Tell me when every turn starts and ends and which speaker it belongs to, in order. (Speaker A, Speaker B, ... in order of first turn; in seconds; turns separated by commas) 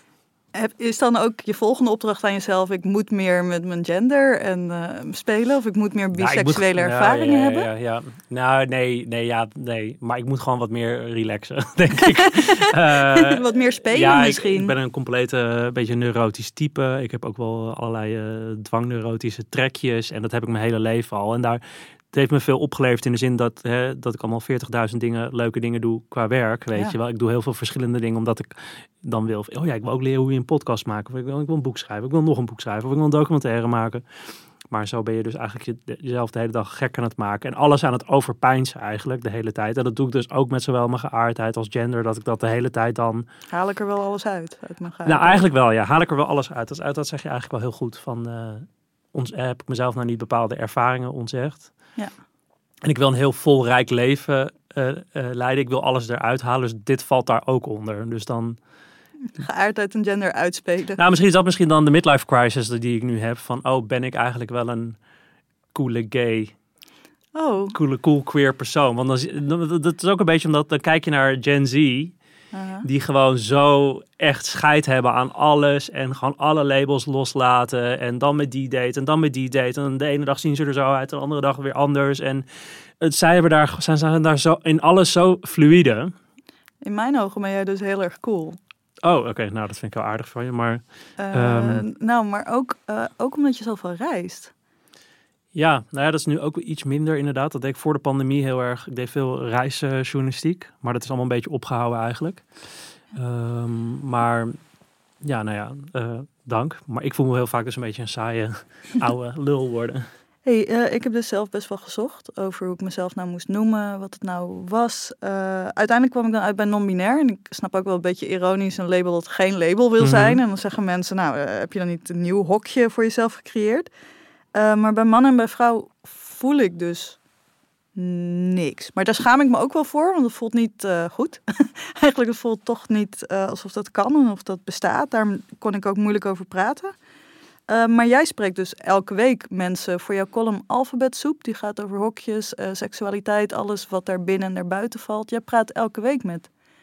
Speaker A: 0.5-7.7, Speaker B: 6.2-34.0, Speaker A: 12.0-14.7, Speaker B: 34.7-43.3, Speaker A: 43.5-45.5, Speaker B: 45.0-51.7, Speaker B: 52.8-58.6, Speaker A: 59.3-61.0, Speaker B: 61.0-65.0, Speaker B: 65.7-66.5, Speaker A: 67.3-67.8, Speaker B: 67.7-72.2, Speaker A: 72.5-72.9, Speaker B: 72.8-82.5, Speaker B: 83.0-86.1, Speaker A: 86.8-88.6, Speaker B: 89.0-91.8, Speaker A: 91.2-94.5, Speaker B: 95.5-102.5, Speaker B: 103.1-104.6, Speaker B: 105.2-110.1, Speaker A: 110.5-123.9, Speaker B: 120.0-120.4, Speaker A: 124.5-127.2, Speaker A: 128.0-136.9, Speaker A: 137.7-146.5